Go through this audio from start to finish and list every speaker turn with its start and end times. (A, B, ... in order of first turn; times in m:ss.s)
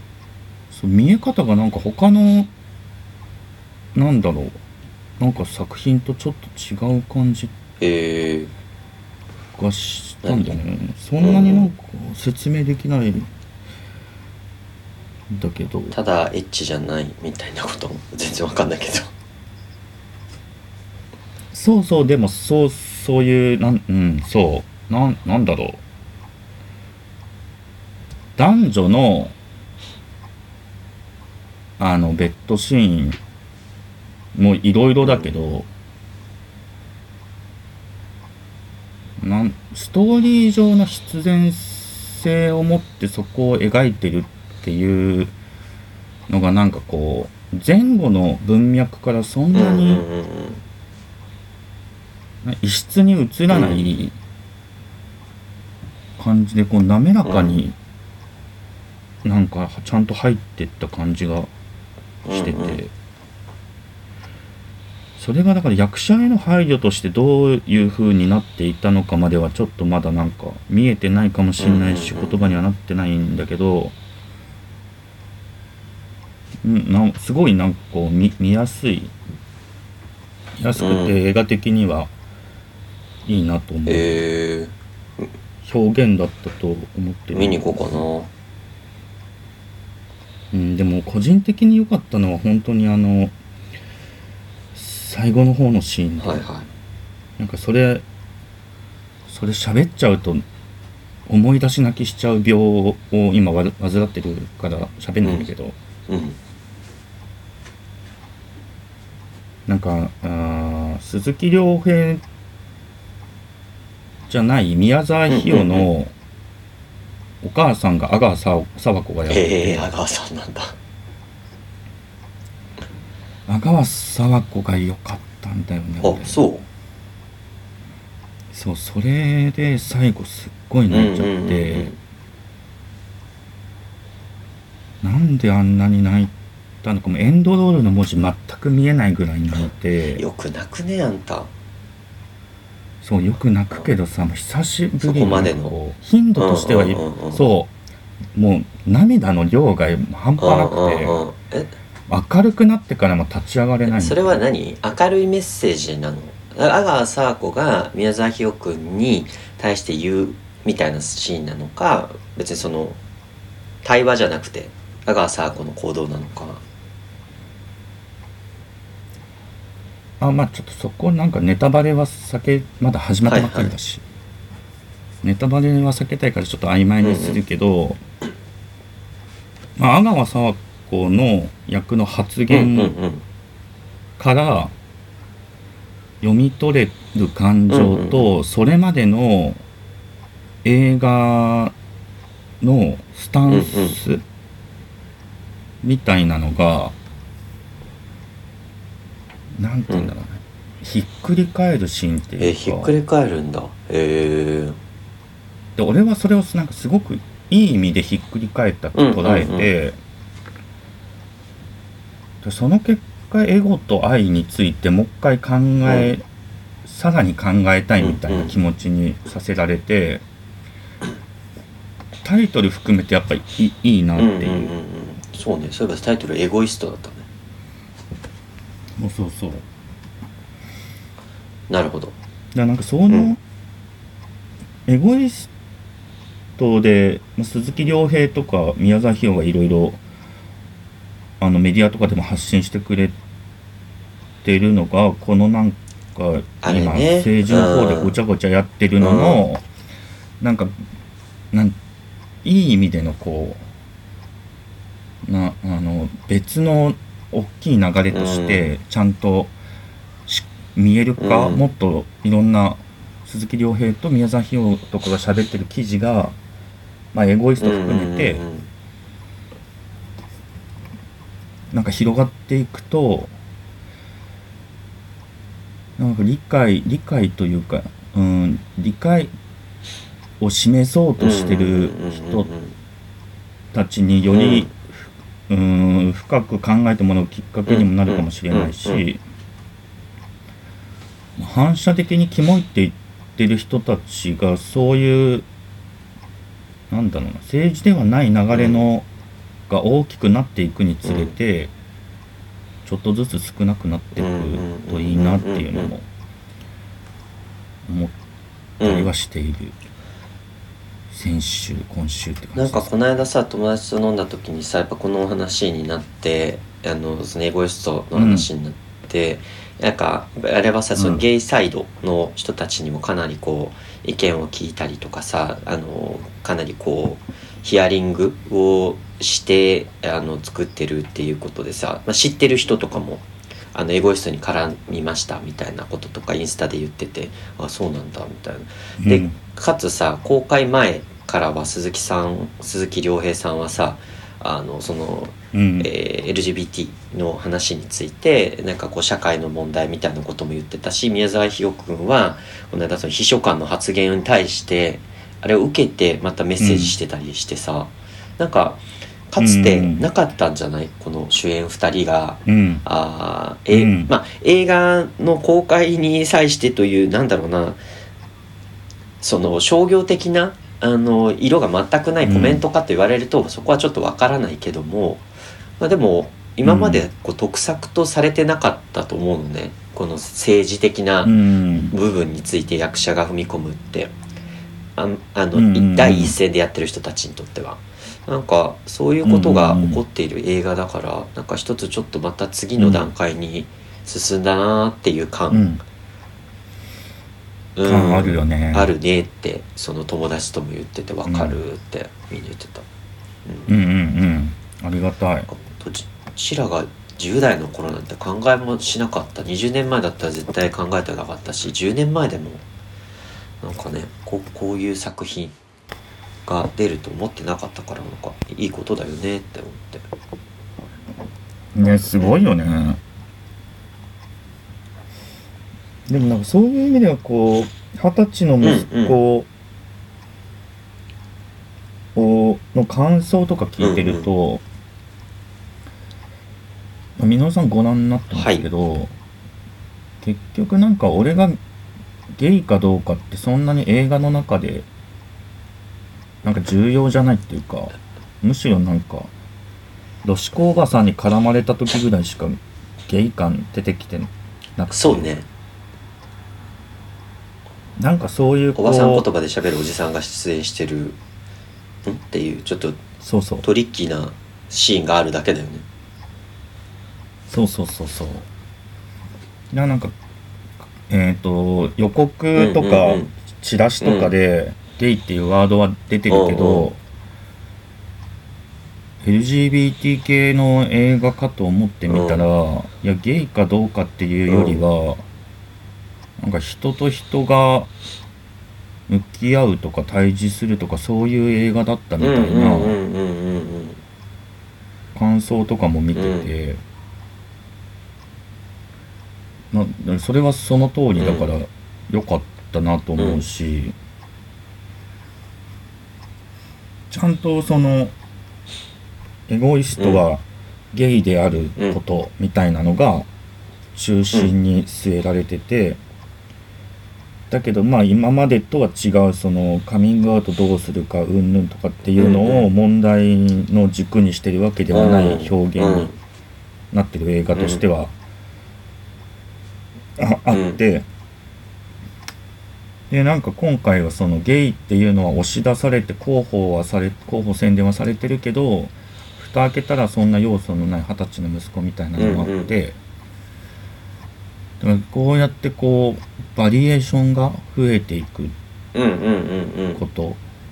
0:00.7-0:02.5 A
0:03.9-0:04.6 A
0:05.2-0:07.5 A
0:07.8-0:08.5 B
0:09.6-0:13.3 A
0:10.2-0:10.6 B
0:11.2-0:11.7 B
0:15.3-0:16.0 A
0:15.9-0:19.1 B
0:21.5-0:25.8 A
0:28.4-0:29.3 A
0:31.8-0:33.2 A
0:34.3-0:35.7 A
0:35.0-0:35.3 B
0:39.2-0:45.3 A
0:46.3-0:50.0 A
0:49.5-0:50.6 B
0:52.4-0:54.2 A
0:53.5-0:53.9 B
0:56.2-0:57.7 A
0:57.2-0:57.6 B
0:59.2-1:01.5 A
1:02.2-1:02.8 B
1:02.3-1:02.9 A
1:05.2-1:13.9 A
1:11.6-1:12.6 B
1:16.6-1:19.1 A
1:20.6-1:22.1 A
1:20.8-1:21.2 B
1:23.2-1:24.2 A
1:23.9-1:25.3 B
1:25.6-1:28.0 A
1:27.3-1:28.3 B
1:30.5-1:33.3 A
1:34.7-1:36.5 A
1:36.2-1:36.6 B
1:37.4-1:38.0 A
1:39.3-1:40.4 A
1:41.3-1:45.8 A
1:45.2-1:45.5 B
1:46.1-1:46.4 B
1:49.7-1:52.2 A
1:54.3-1:56.1 A
1:55.3-1:55.9 B
1:57.4-1:59.9 A
1:59.3-2:00.7 B
2:03.5-2:06.4 A
2:06.0-2:06.6 B
2:08.5-2:11.9 A
2:10.9-2:12.0 B
2:15.0-2:20.2 A
2:20.2-2:21.5 B
2:23.0-2:27.7 A
2:25.0-2:25.8 B
2:26.4-2:27.4 B
2:28.3-2:31.2 A
2:30.4-2:31.7 B
2:32.1-2:34.4 A
2:33.8-2:43.0 B
2:43.8-2:46.6 B
2:50.2-2:54.0 A
2:53.2-2:53.7 B
2:55.2-2:58.0 A
2:57.0-2:57.4 B
2:59.8-3:02.9 A
3:02.5-3:03.2 B
3:04.2-3:04.7 A
3:06.2-3:09.6 A
3:07.7-3:08.3 B
3:10.6-3:11.7 A
3:12.6-3:14.2 A
3:13.5-3:14.0 B
3:15.8-3:17.0 A
3:19.6-3:22.9 A
3:22.4-3:24.8 B
3:25.8-3:30.0 A
3:28.9-3:29.7 B
3:32.4-3:36.2 A
3:35.8-3:36.1 B
3:36.8-3:40.2 A
3:38.0-3:38.5 B
3:42.2-3:44.7 A
3:44.2-3:47.2 B
3:49.0-3:49.6 A
3:51.7-3:52.1 B
3:52.5-3:53.4 A
3:53.1-3:53.3 B
3:54.9-3:55.5 A
3:56.6-4:00.0 A
4:01.4-4:03.2 A
4:04.4-4:09.6 A
4:06.6-4:08.1 B
4:09.0-4:09.4 B
4:10.4-4:10.7 A
4:12.4-4:13.6 A
4:15.2-4:19.5 A
4:18.1-4:18.6 B
4:20.3-4:26.4 A
4:21.2-4:21.6 B
4:27.1-4:28.4 A
4:27.6-4:28.7 B
4:31.7-4:33.3 A
4:36.0-4:39.3 A
4:40.4-4:42.5 A
4:41.2-4:42.7 B
4:43.7-4:49.2 A
4:44.3-4:44.7 B
4:47.7-4:49.0 B
4:51.4-4:55.4 A
4:56.9-4:59.0 A
4:58.5-4:58.8 B
4:59.7-5:01.7 A
5:01.0-5:01.3 B
5:02.8-5:06.0 A
5:04.1-5:05.9 B
5:07.8-5:08.2 A
5:08.8-5:09.1 B
5:08.8-5:09.7 A
5:11.1-5:12.9 A
5:12.6-6:07.8 B
5:18.1-5:18.5 A
5:20.9-5:21.2 A
5:39.0-5:39.4 A
5:45.5-5:45.9 A
5:56.6-5:57.0 A
5:59.4-6:00.1 A
6:02.4-6:02.8 A
6:03.7-6:04.1 A
6:09.2-6:15.2 B
6:12.2-6:12.6 A
6:15.8-6:21.4 B
6:16.6-6:17.0 A
6:21.2-6:21.9 A
6:21.9-6:24.1 B
6:25.0-6:35.6 B
6:25.5-6:26.4 A
6:29.2-6:30.0 A
6:32.8-6:33.1 A
6:35.5-6:35.8 A
6:37.7-6:42.9 B
6:37.8-6:38.9 A
6:41.2-6:41.6 A
6:43.7-6:45.5 A
6:45.5-6:52.6 B
6:53.6-6:55.5 B
6:56.4-7:00.1 B
7:01.7-7:03.0 A
7:06.1-7:09.5 A
7:08.6-7:09.2 B
7:12.1-7:14.6 A
7:13.8-7:14.3 B
7:17.2-7:19.1 A
7:18.3-7:18.6 B
7:20.2-7:21.6 A
7:22.3-7:24.9 A
7:26.4-7:29.3 A
7:30.2-7:35.3 A
7:34.9-7:35.4 B
7:38.0-7:39.2 A
7:38.8-7:41.2 B
7:42.0-7:43.0 B
7:43.2-7:43.7 A
7:43.6-7:45.8 B
7:47.5-7:48.5 A
7:49.7-7:50.1 A
7:51.1-7:57.0 A
7:52.5-7:53.3 B
7:54.0-7:54.3 B
7:56.3-7:56.9 B
7:59.2-8:05.2 A
8:02.1-8:02.4 B
8:04.5-8:04.8 B
8:06.4-8:07.9 A
8:09.1-8:13.0 A
8:12.2-8:14.0 B
8:15.1-8:16.8 A
8:16.1-8:16.5 B
8:19.7-8:23.9 A
8:21.2-8:21.5 B
8:23.2-8:23.4 B
8:27.1-8:28.1 A
8:29.5-8:33.3 A
8:33.9-8:36.0 A
8:37.5-8:46.1 A
8:42.2-8:42.7 B
8:44.9-8:46.1 B
8:46.9-8:48.1 A
8:47.5-8:47.8 B
8:50.2-8:51.0 A
8:50.5-8:50.8 B
8:53.1-9:03.0 A
9:02.2-9:02.7 B
9:04.8-9:08.5 A
9:08.9-9:10.0 B
9:09.9-9:10.4 A